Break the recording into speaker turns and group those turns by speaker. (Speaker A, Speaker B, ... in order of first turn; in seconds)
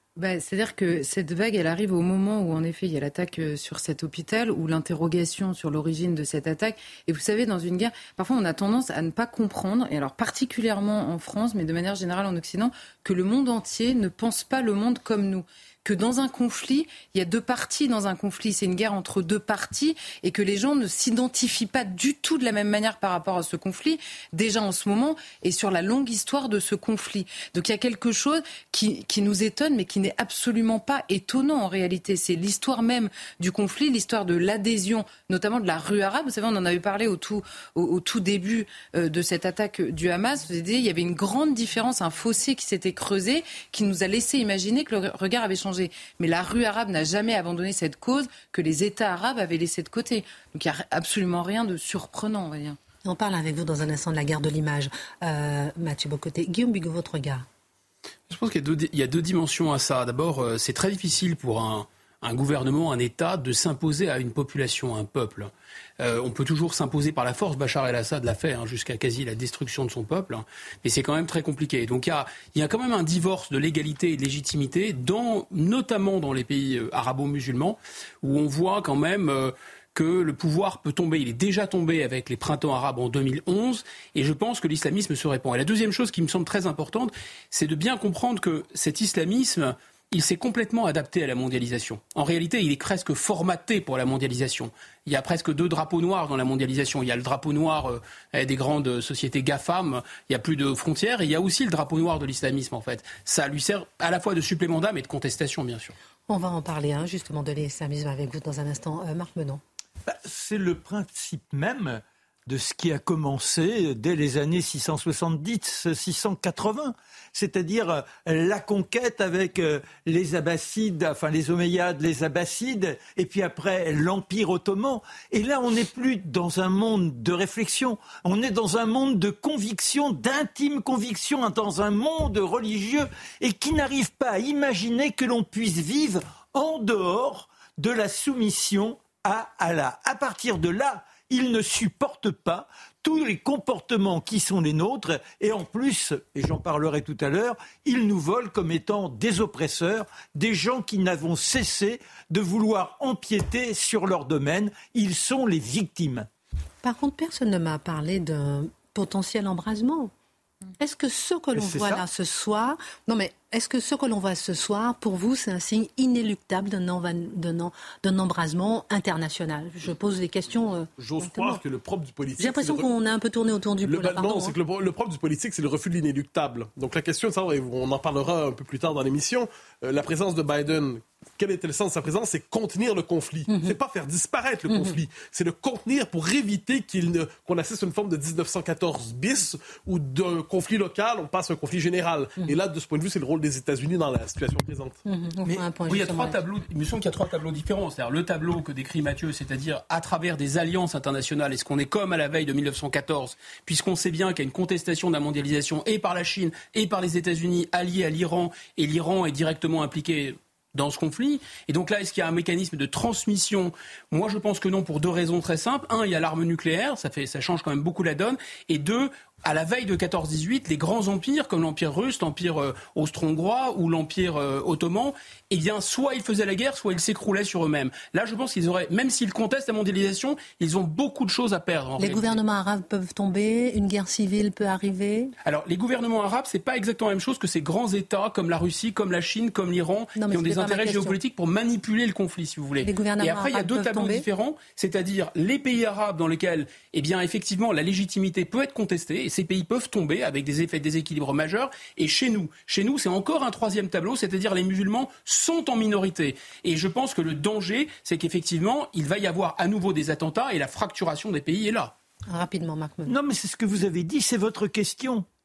Speaker A: 0.2-52.8
Speaker B: 53.0-57.5, 106.3-109.6, 156.8-160.1, 160.8-171.6, 172.4-174.6, 195.0-196.4, 232.0-235.3, 240.2-241.2, 242.8-244.3, 262.3-263.1
Speaker C: 58.3-105.9, 195.4-232.4, 235.4-261.9
Speaker D: 110.1-156.3, 161.5-162.0, 263.1-265.2
Speaker E: 171.0-172.9, 173.8-195.0